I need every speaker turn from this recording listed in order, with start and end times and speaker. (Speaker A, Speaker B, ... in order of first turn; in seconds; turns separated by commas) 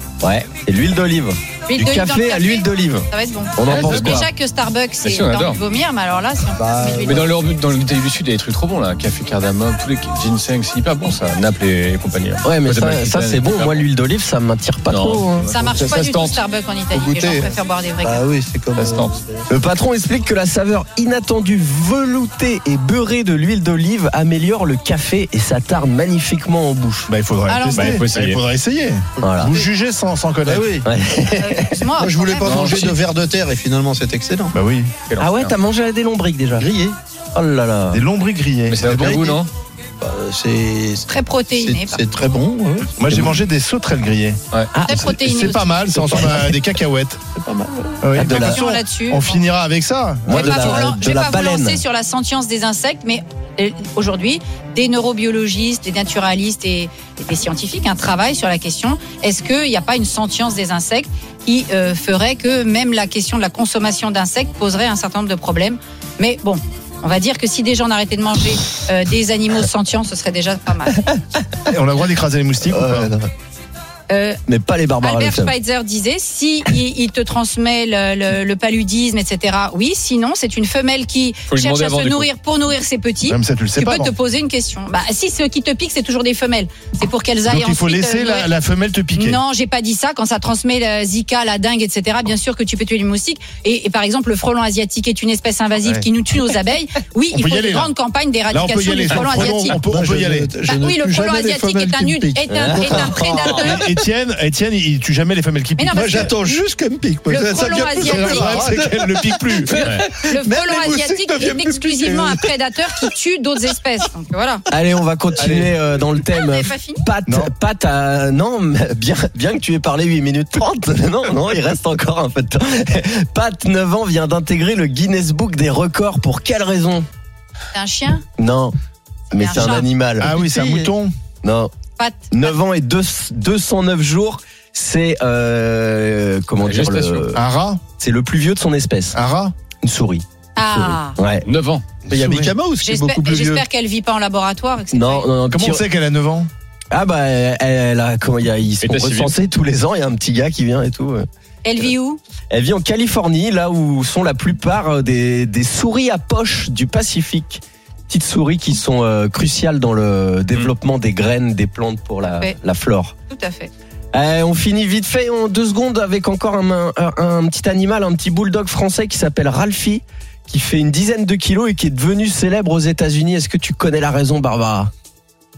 Speaker A: 0.2-4.2, Speaker B: 1.7-7.3, Speaker C: 3.6-4.3, Speaker C: 5.0-5.6, Speaker D: 6.5-7.3, Speaker C: 7.0-13.8, Speaker A: 12.4-15.6, Speaker C: 14.9-16.4, Speaker B: 15.5-18.2, Speaker D: 15.6-16.0, Speaker D: 16.9-19.4, Speaker C: 18.8-19.2, Speaker A: 19.5-27.1, Speaker E: 27.1-30.7, Speaker B: 27.5-28.0, Speaker C: 27.7-28.4, Speaker A: 29.2-29.6, Speaker D: 29.2-29.6, Speaker D: 30.4-30.9, Speaker A: 30.8-31.8, Speaker B: 31.3-32.9, Speaker D: 32.0-34.5, Speaker C: 32.5-33.0, Speaker E: 34.5-34.9, Speaker C: 35.1-35.5, Speaker A: 35.2-36.7, Speaker D: 36.6-37.0, Speaker A: 37.3-38.0, Speaker E: 37.9-39.3, Speaker C: 38.7-39.5, Speaker D: 38.9-39.5, Speaker D: 40.0-43.4, Speaker B: 41.1-42.0, Speaker E: 43.0-47.2, Speaker A: 44.7-45.0, Speaker B: 44.8-46.0, Speaker D: 46.0-46.4, Speaker D: 47.3-48.1, Speaker E: 48.0-50.9, Speaker A: 48.1-48.6, Speaker B: 48.2-49.4, Speaker A: 50.2-51.8, Speaker B: 50.3-71.0, Speaker E: 71.7-73.1, Speaker A: 72.6-73.3, Speaker B: 74.1-74.4, Speaker A: 74.5-75.5, Speaker B: 75.0-88.5, Speaker C: 81.5-82.3, Speaker E: 83.3-84.1, Speaker E: 87.5-89.4, Speaker B: 89.2-99.8, Speaker E: 97.3-97.9, Speaker E: 98.5-100.5, Speaker D: 99.1-103.8, Speaker B: 100.6-103.9, Speaker A: 102.5-103.3, Speaker E: 103.0-106.3, Speaker B: 105.8-106.5, Speaker D: 105.9-113.1, Speaker B: 107.3-108.7, Speaker E: 108.0-110.0, Speaker B: 110.0-114.6, Speaker A: 114.7-127.0, Speaker D: 115.4-115.7, Speaker E: 115.4-115.8, Speaker B: 116.2-117.0, Speaker B: 127.7-128.2, Speaker A: 128.4-128.7, Speaker A: 129.3-130.4, Speaker B: 129.3-129.9, Speaker E: 129.5-131.1, Speaker D: 130.2-130.9, Speaker A: 131.4-131.7, Speaker B: 132.0-132.6, Speaker A: 132.3-137.4, Speaker C: 136.6-137.3, Speaker E: 137.3-137.8, Speaker A: 138.0-139.2, Speaker E: 139.1-139.5, Speaker A: 139.8-141.4, Speaker B: 140.6-141.2, Speaker C: 141.4-141.8, Speaker E: 142.1-142.5, Speaker D: 142.1-143.6, Speaker B: 142.8-145.3, Speaker A: 144.9-145.8, Speaker E: 145.5-146.5, Speaker A: 146.9-151.2, Speaker C: 148.8-149.3, Speaker B: 151.6-152.2, Speaker A: 152.5-163.1, Speaker B: 162.3-162.6, Speaker B: 163.3-163.7, Speaker A: 164.1-174.9